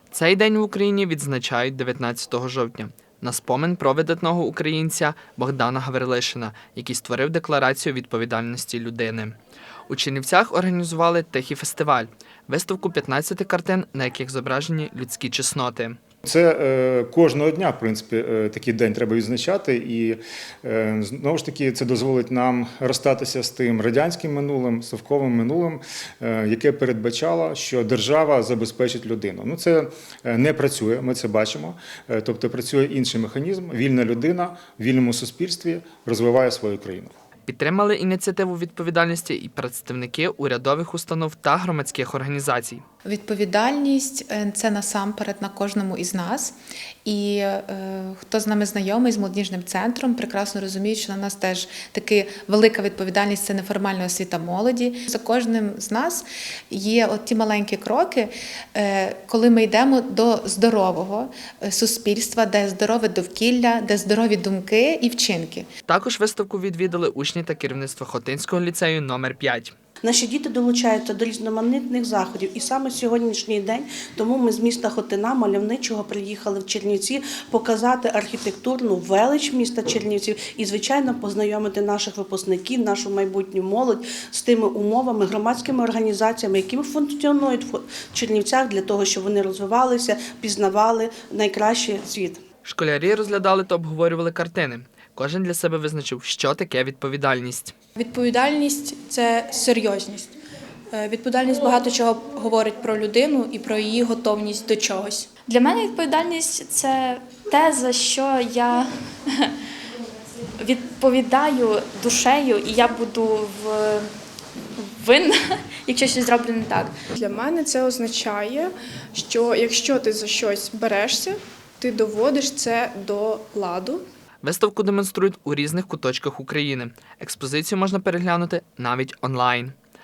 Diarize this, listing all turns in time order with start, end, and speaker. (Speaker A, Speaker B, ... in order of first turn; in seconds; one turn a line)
Speaker A: 0.1-9.4
Speaker A: 9.9-16.0
Speaker B: 16.2-37.1
Speaker A: 37.5-42.8
Speaker C: 43.0-65.7
Speaker A: 65.9-69.8
Speaker D: 70.0-92.4
Speaker A: 92.7-97.7
Speaker E: 98.0-100.3
Speaker E: 100.9-105.3
Speaker F: 105.5-109.6
Speaker F: 110.6-114.1
Speaker F: 114.8-117.0
Speaker G: 117.2-124.0
Speaker A: 124.4-129.8